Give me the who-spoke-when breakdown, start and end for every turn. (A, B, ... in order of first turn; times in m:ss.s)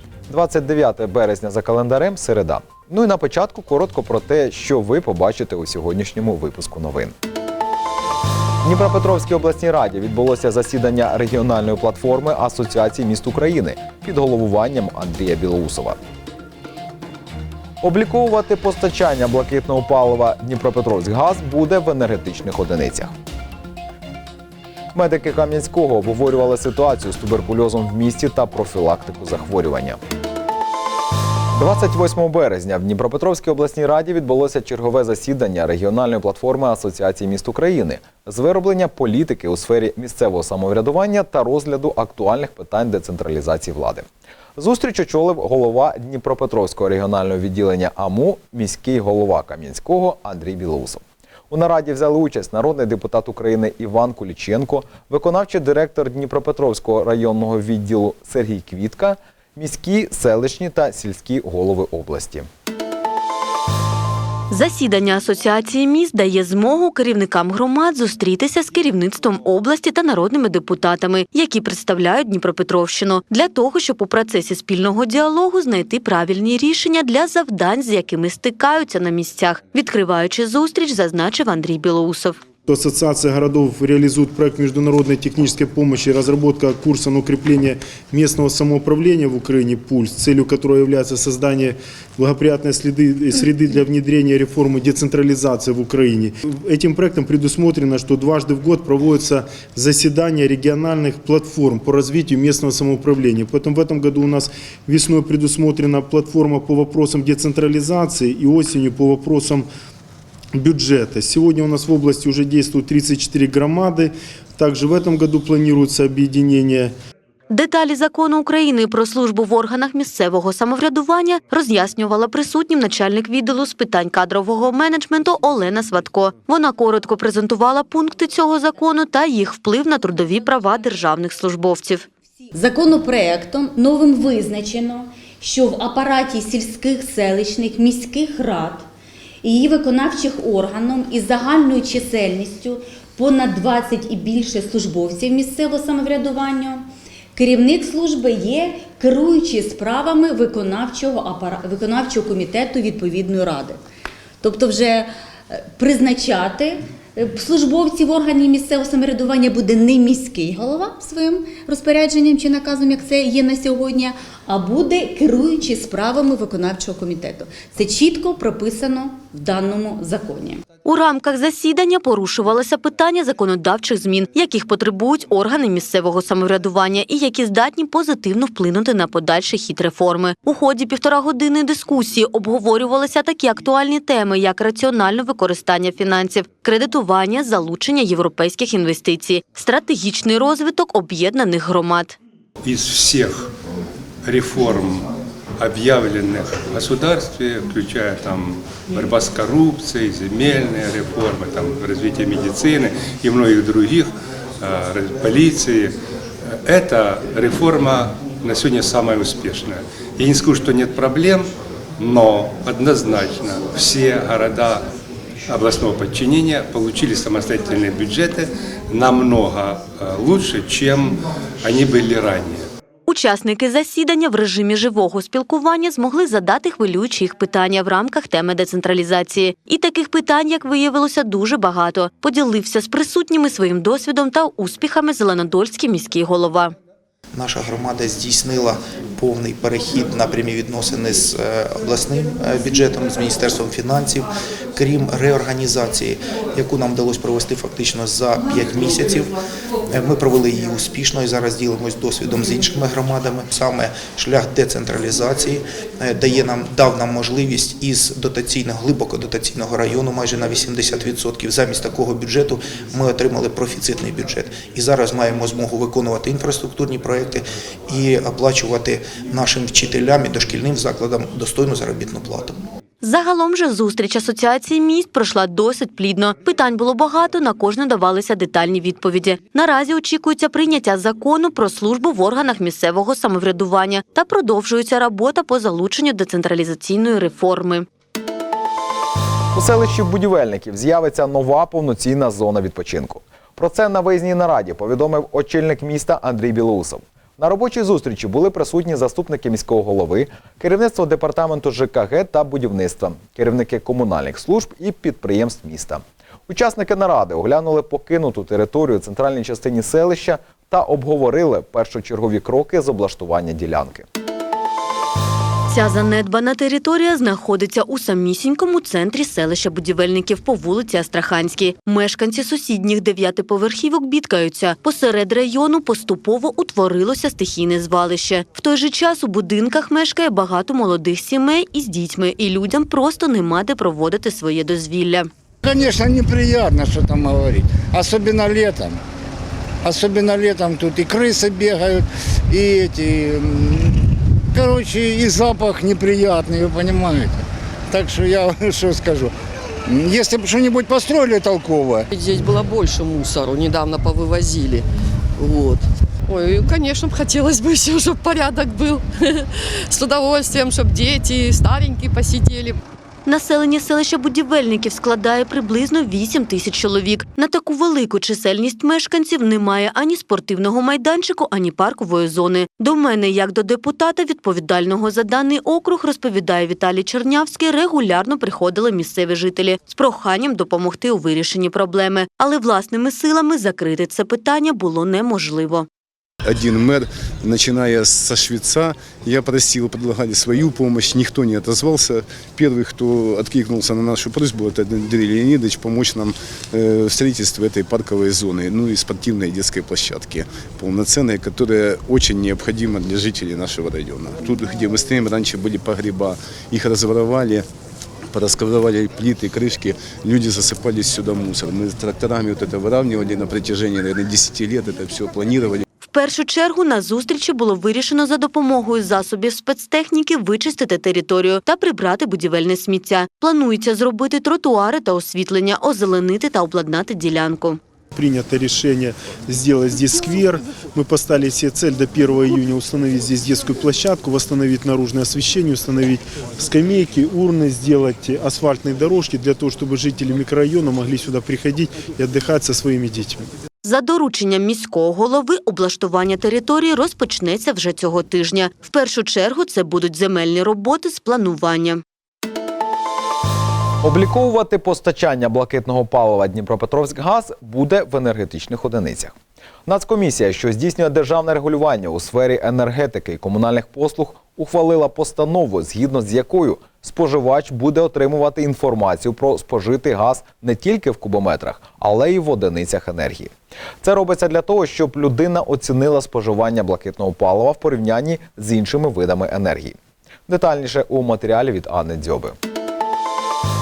0:00.3-0:07.1 A
0:08.6-0:16.0 A
0:17.8-0:23.1 A
0:24.9-0:30.0 A
0:31.5-1:02.5 A
1:04.5-1:22.4 B
1:22.7-1:49.7 C
1:50.5-1:56.9 C
1:57.5-2:12.0 B
2:12.5-2:18.9 D
2:19.4-2:33.8 D
2:34.4-2:50.6 D
2:50.8-3:12.2 B
3:12.6-3:13.5 E
3:14.2-3:26.0 E
3:26.5-3:34.9 E
3:35.5-3:42.6 E
3:43.1-3:56.7 B
3:57.3-4:09.3 F
4:09.9-4:32.6 F
4:33.0-4:47.8 B
4:49.5-5:14.0 A
5:15.7-5:35.3 B
5:35.6-5:39.0 G
5:39.8-5:47.4 G
5:47.9-5:49.3 G
5:49.8-5:52.0 G
5:52.1-5:54.8 H
5:55.4-6:02.8 H
6:03.2-6:25.9 B
6:26.4-6:47.6 I
6:48.3-6:55.8 I
6:56.0-7:07.8 B
7:08.1-7:23.5 C
7:23.8-7:32.0 B
7:34.0-7:39.3 A
7:39.8-8:00.0 A
8:00.5-8:02.6 A